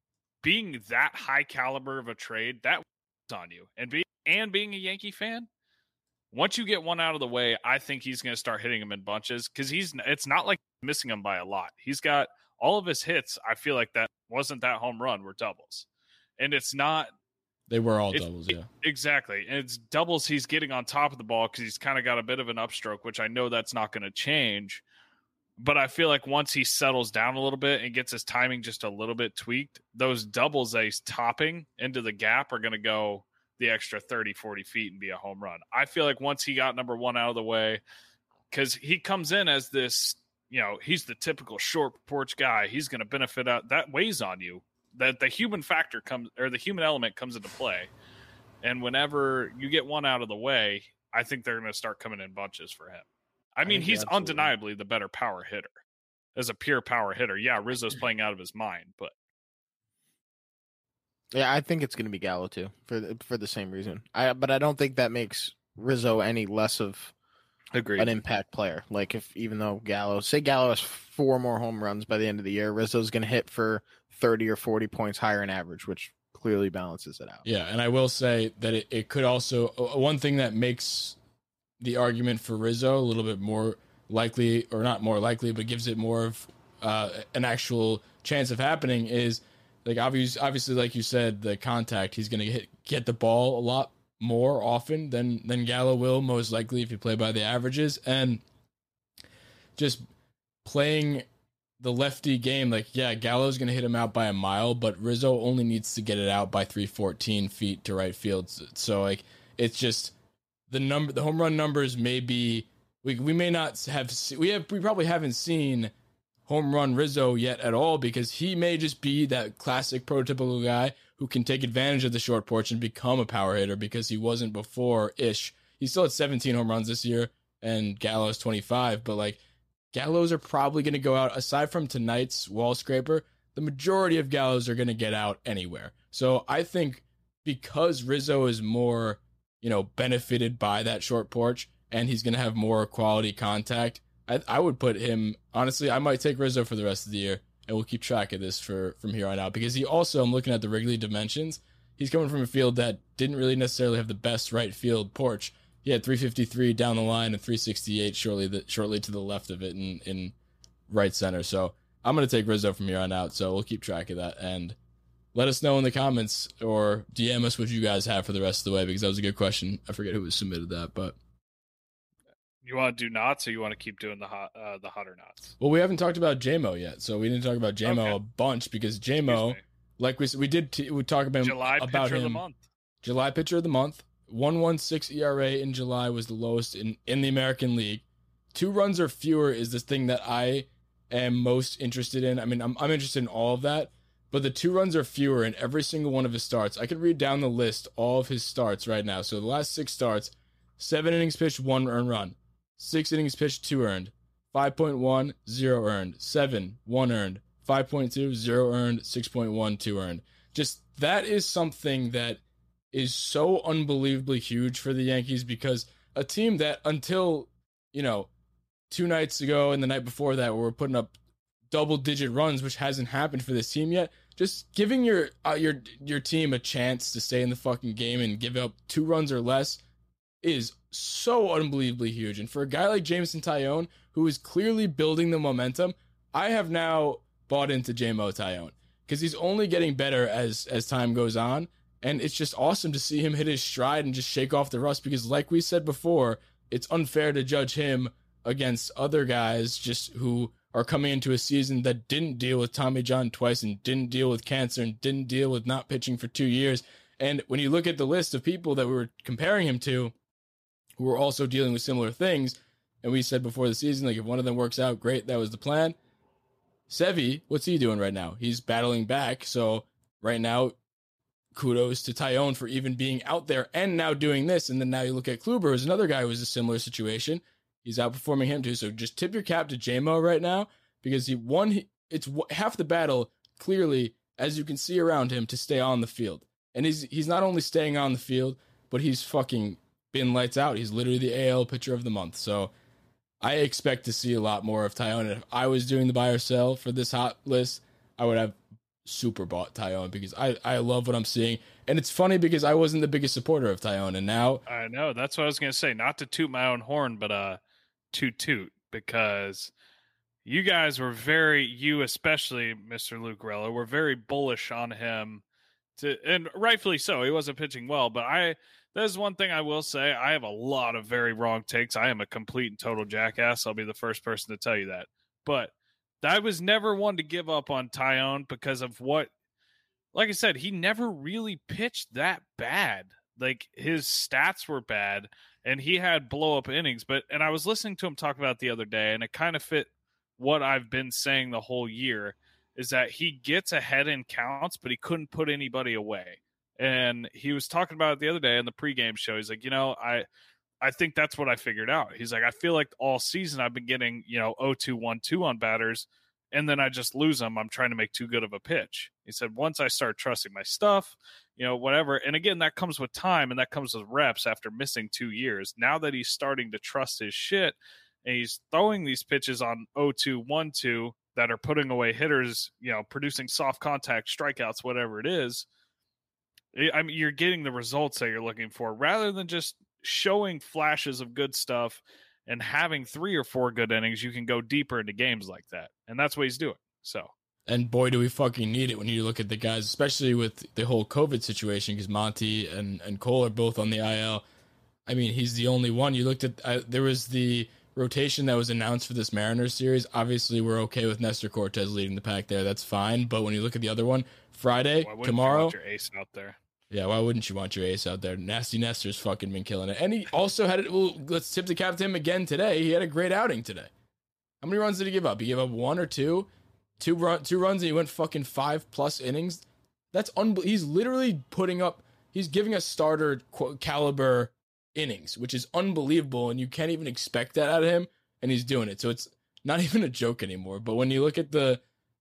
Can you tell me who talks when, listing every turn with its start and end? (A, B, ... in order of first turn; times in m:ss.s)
0:00.4-0:05.5 A
0:06.3-0:15.9 A
0:16.4-0:17.1 A
0:17.7-0:18.7 B
0:18.1-0:24.8 A
0:25.6-0:37.8 A
0:38.5-0:47.9 A
0:48.6-0:55.7 A
0:53.6-0:54.5 C
0:56.4-0:59.1 A
1:01.3-1:07.1 C
1:07.7-1:08.1 A
1:08.0-1:17.4 C
1:17.4-1:21.2 B
1:21.8-1:38.4 B
1:39.8-1:40.1 B
1:40.6-1:41.3 B
1:41.8-1:50.1 B
1:50.7-1:55.9 B
1:56.5-2:09.4 B
2:09.9-2:40.3 B
2:40.9-2:44.8 B
2:45.3-2:51.2 B
2:52.6-2:55.5 A
2:55.6-3:02.4 B
2:57.8-2:58.2 A
2:59.2-2:59.6 A
3:01.4-3:02.6 A
3:03.0-3:32.4 B
3:32.9-3:38.3 B
3:38.9-3:41.2 B
3:41.7-3:49.8 B
3:50.4-4:20.1 B
4:21.0-4:26.0 B
4:26.9-4:30.8 B
4:31.5-4:52.7 B
4:53.4-5:04.6 B
5:04.7-5:07.6 A
5:08.1-5:09.7 A
5:10.4-5:15.4 A
5:16.0-5:29.3 A
5:30.1-5:50.3 A
5:50.8-6:15.7 A
6:16.7-6:27.3 A
6:27.7-6:34.4 B
6:35.1-6:45.8 B
6:45.0-6:46.6 A
6:46.9-6:53.9 B
6:54.6-7:11.8 B